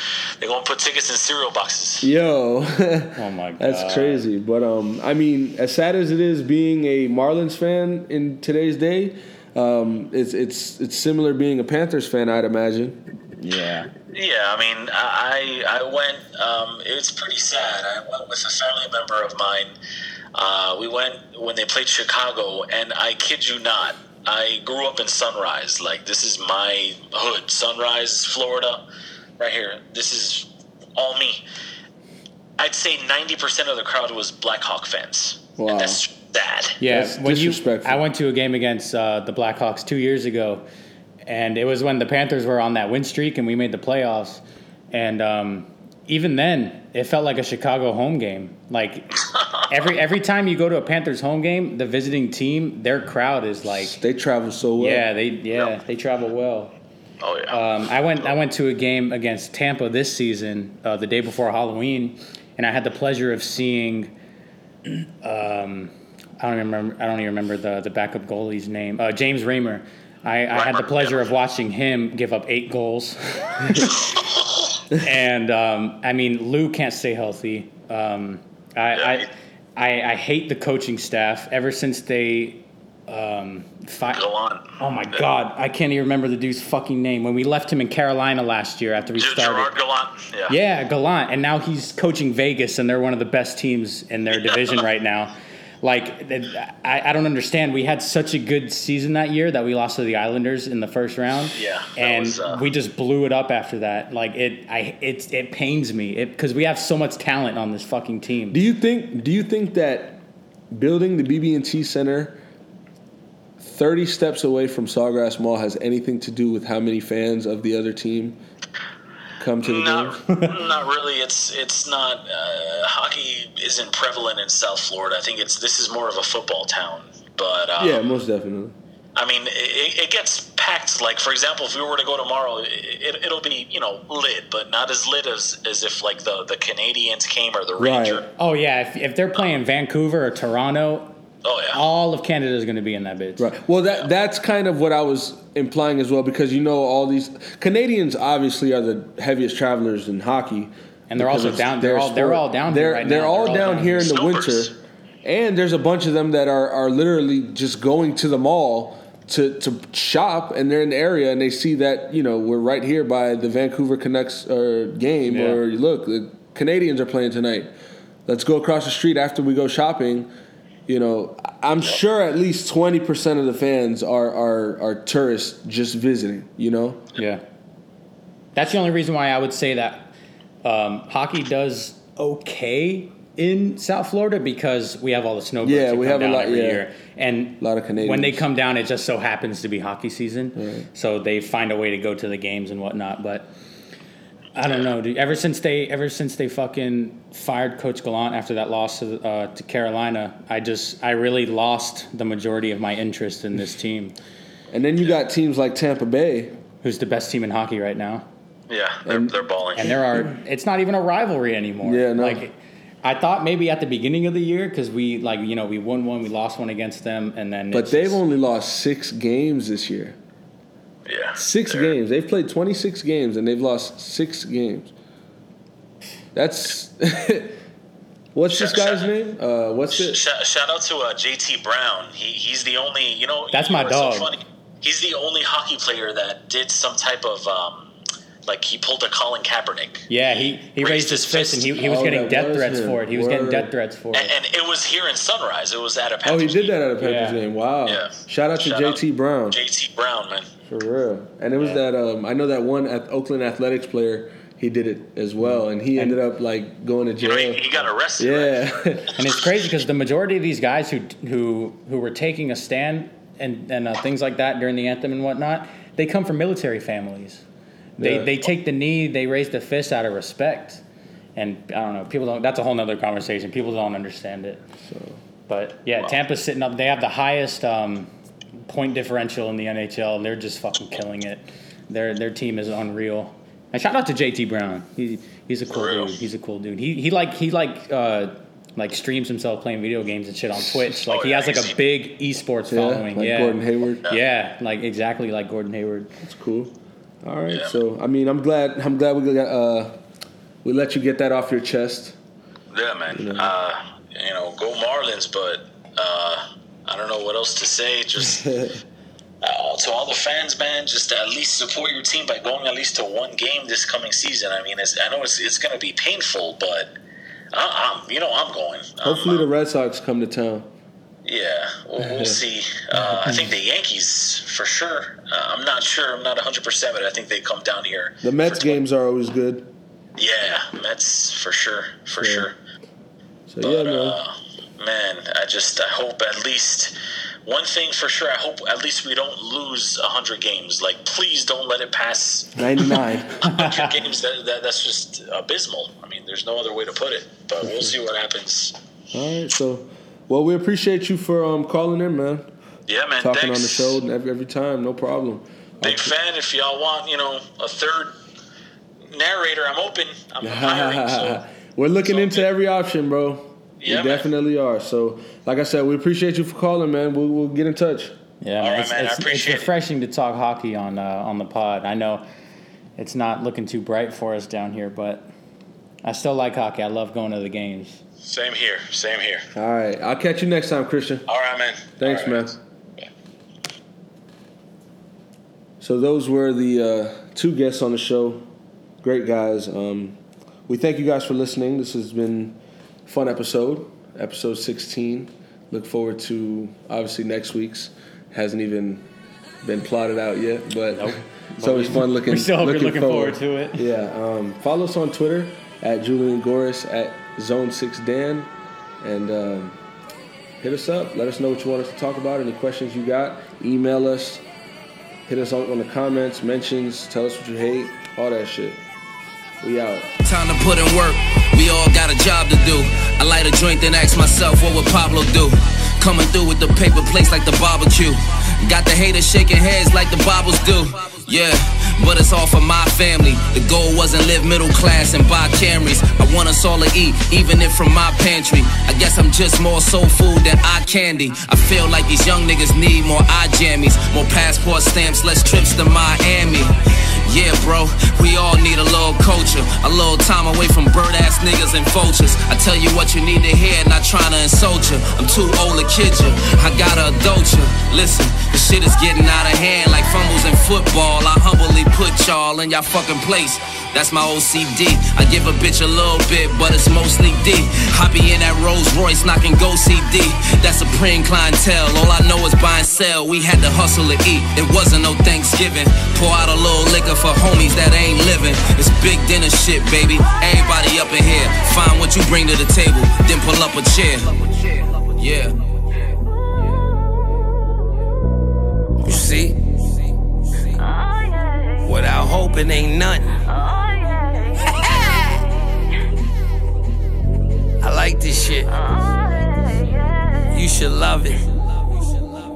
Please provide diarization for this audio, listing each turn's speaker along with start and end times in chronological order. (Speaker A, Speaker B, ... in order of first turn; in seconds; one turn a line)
Speaker A: 0.4-2.1
Speaker B: 2.0-13.9
Speaker C: 3.2-4.2
Speaker A: 14.1-19.7
Speaker A: 20.4-28.8
Speaker A: 29.4-31.4
Speaker A: 32.6-36.8
Speaker B: 35.6-36.0
Speaker C: 36.8-40.6
Speaker B: 36.9-38.0
Speaker C: 41.3-54.0
Speaker B: 53.7-55.0
Speaker C: 54.8-56.7
Speaker A: 57.2-57.6
Speaker C: 57.5-64.1
Speaker C: 65.2-74.0
Speaker A: 70.5-71.2
Speaker C: 75.0-84.2
Speaker A: 79.0-79.3
Speaker A: 84.1-84.7
Speaker C: 84.8-89.7
Speaker A: 89.1-90.6
Speaker C: 90.5-108.6
Speaker A: 101.5-102.7
Speaker B: 108.5-112.4
Speaker B: 113.6-118.4
Speaker B: 119.4-120.2
Speaker A: 119.6-128.0
Speaker B: 127.8-128.8
Speaker A: 129.2-138.3
Speaker B: 137.8-138.2
Speaker C: 138.4-141.2
Speaker A: 141.4-141.8
Speaker C: 141.7-143.5
Speaker B: 143.4-167.7
Speaker C: 151.1-154.1
Speaker A: 153.7-154.7
Speaker C: 165.3-165.6
Speaker B: 168.3-170.3
Speaker B: 170.9-177.1
Speaker C: 177.2-177.4
Speaker C: 178.6-180.1
Speaker C: 180.6-193.5
Speaker B: 185.6-186.8
Speaker B: 187.6-188.4
Speaker B: 190.6-190.9
Speaker C: 194.6-204.2
Speaker B: 204.7-206.6
Speaker C: 206.8-208.3
Speaker A: 208.7-210.0
Speaker B: 209.1-209.3
Speaker C: 209.8-218.2
Speaker B: 209.9-210.2
Speaker B: 211.8-212.4
Speaker B: 217.7-220.2
Speaker A: 221.1-221.9
Speaker B: 221.4-224.9
Speaker B: 226.3-227.6
Speaker B: 228.3-230.2
Speaker A: 228.5-229.1
Speaker A: 229.9-237.9
Speaker C: 233.5-234.3
Speaker A: 238.5-241.8
Speaker C: 240.1-244.3
Speaker B: 241.8-243.7
Speaker A: 244.1-246.8
Speaker B: 246.2-249.6
Speaker C: 247.0-247.4
Speaker A: 247.8-250.5
Speaker B: 250.7-259.1
Speaker A: 257.2-259.0
Speaker C: 259.2-267.4
Speaker C: 268.0-270.8
Speaker B: 268.0-268.4
Speaker C: 271.4-274.6
Speaker B: 274.8-275.2
Speaker C: 275.5-296.1
Speaker A: 285.7-286.1
Speaker A: 291.0-291.8
Speaker B: 292.7-294.1
Speaker B: 296.2-300.0
Speaker B: 300.6-302.2
Speaker A: 302.7-308.4
Speaker B: 303.1-303.5
Speaker B: 308.2-308.8
Speaker A: 309.4-316.9
Speaker A: 317.5-319.4
Speaker B: 319.0-320.7
Speaker A: 321.2-328.8
Speaker B: 322.0-322.4
Speaker B: 322.9-323.4
Speaker B: 328.2-329.7
Speaker A: 330.2-332.6
Speaker B: 332.2-332.5
Speaker B: 333.5-334.2
Speaker A: 333.6-336.9
Speaker A: 337.4-342.6
Speaker B: 342.6-343.4
Speaker A: 343.4-348.8
Speaker C: 343.4-344.0
Speaker B: 347.6-347.9
Speaker B: 349.1-352.5
Speaker A: 352.9-354.0
Speaker B: 353.2-356.1
Speaker A: 355.8-358.1
Speaker A: 359.1-361.4
Speaker B: 360.4-368.1
Speaker A: 362.1-362.4
Speaker A: 363.8-364.3
Speaker C: 368.4-372.2
Speaker A: 368.6-369.7
Speaker C: 373.0-375.3
Speaker C: 376.0-378.0
Speaker A: 378.2-379.5
Speaker B: 379.6-381.3
Speaker A: 381.3-383.1
Speaker B: 382.0-382.6
Speaker B: 385.8-388.5
Speaker B: 389.0-399.1
Speaker B: 399.6-408.5
Speaker C: 400.9-403.9
Speaker B: 409.0-409.8
Speaker B: 410.6-414.4
Speaker B: 415.3-418.8
Speaker B: 419.6-420.1
Speaker D: 420.2-484.4
Speaker D: 485.1-485.6
Speaker E: 489.0-489.6
Speaker E: 491.8-493.4
Speaker E: 494.8-495.4
Speaker E: 497.8-498.8
Speaker E: 500.5-501.5